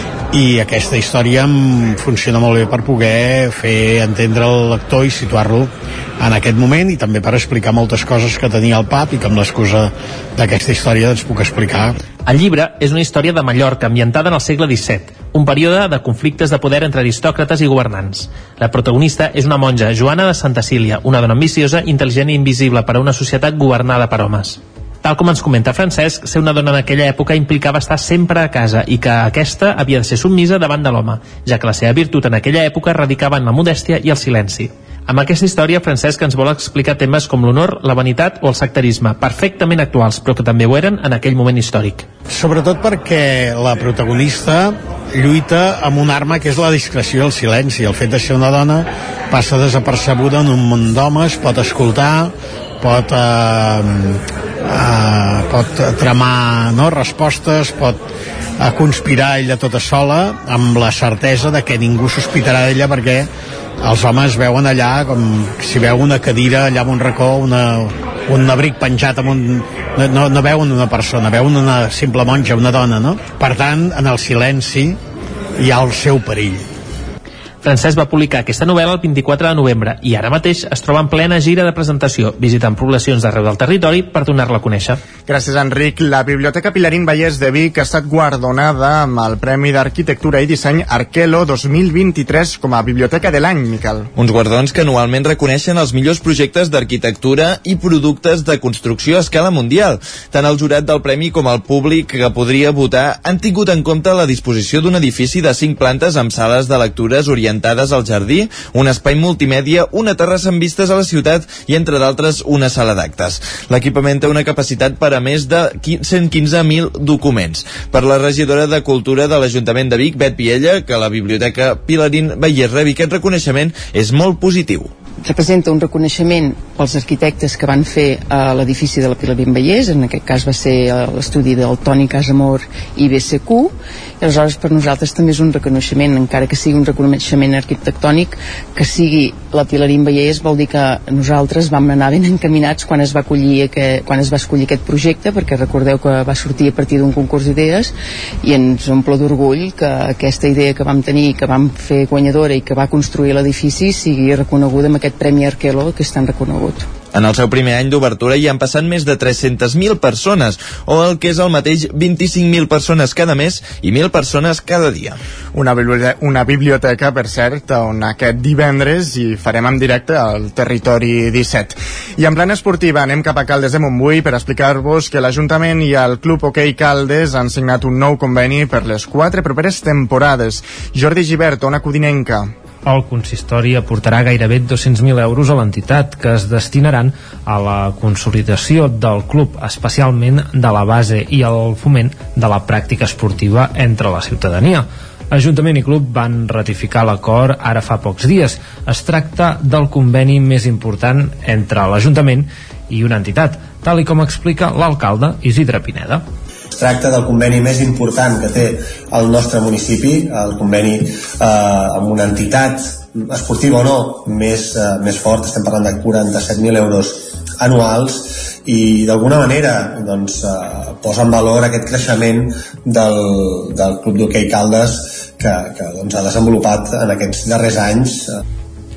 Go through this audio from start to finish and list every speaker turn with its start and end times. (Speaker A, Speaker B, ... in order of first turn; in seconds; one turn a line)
Speaker A: 0.3-12.0
Speaker B: 12.2-42.1
Speaker A: 42.3-58.0
Speaker A: 58.6-63.3
Speaker A: 63.8-75.0
Speaker A: 75.6-76.6
Speaker B: 77.6-85.0
Speaker C: 85.3-94.1
Speaker D: 94.2-124.9
Speaker E: 125.2-156.9
Speaker D: 157.1-165.2
Speaker C: 165.5-182.5
Speaker F: 182.8-206.2
Speaker G: 206.8-228.2